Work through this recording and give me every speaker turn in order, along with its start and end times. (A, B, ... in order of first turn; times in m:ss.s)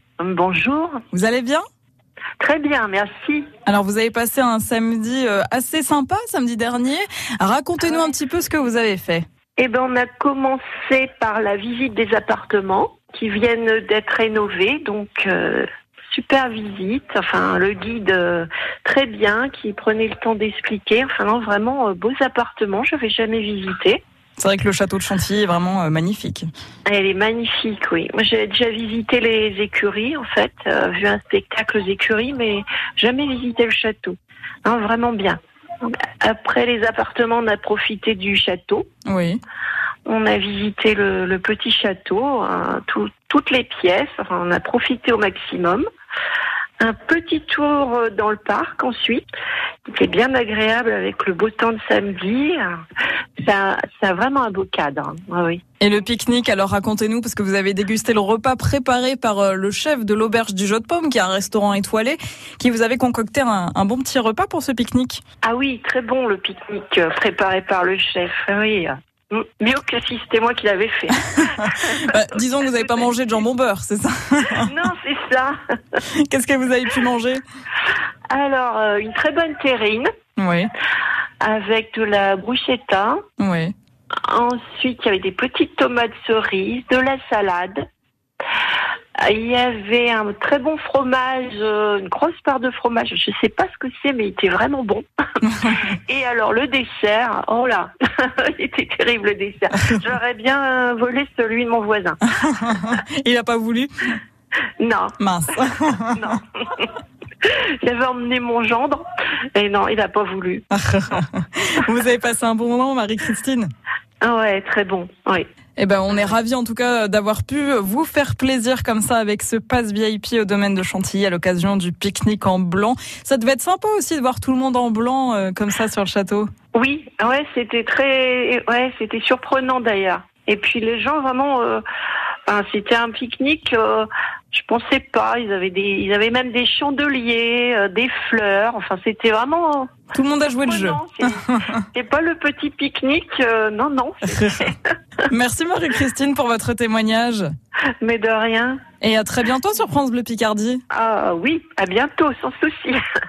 0:00.2-0:01.0 A
0:01.1-0:01.6 B
0:02.4-0:03.5 A
0:03.7-0:09.2 B
0:09.6-0:24.0 A
0:24.4-0:26.5 B
0:26.9-0:38.9 A
0:39.1-0:39.4 B
0:40.1-0:45.8 A
0:46.8-0:49.2 A
0:49.9-0:52.7 A
0:53.4-0:55.6 A
0:55.8-1:05.2 B
1:05.4-1:12.1 A
1:11.6-1:14.7 B
1:14.6-1:15.6 A
1:16.1-1:17.4 B
1:18.3-1:20.1 A
1:20.4-1:20.7 B
1:21.4-1:23.2 A
1:23.4-1:23.7 B
1:24.3-1:27.8 A
1:29.2-1:35.0 A
1:35.5-1:35.8 B
1:35.7-1:42.2 A
1:42.3-1:44.2 B
1:44.8-1:45.2 A
1:45.2-1:46.4 B
1:46.2-1:50.6 A
1:50.7-1:53.7 B
1:54.2-1:55.5 A
1:55.8-2:06.5 B
2:06.8-2:11.8 A
2:12.5-2:19.9 A
2:20.1-2:21.8 B
2:20.6-2:24.9 A
2:24.3-2:24.7 B
2:25.3-2:27.5 B
2:28.0-2:28.8 A
2:29.0-2:30.8 B
2:30.9-2:33.0 A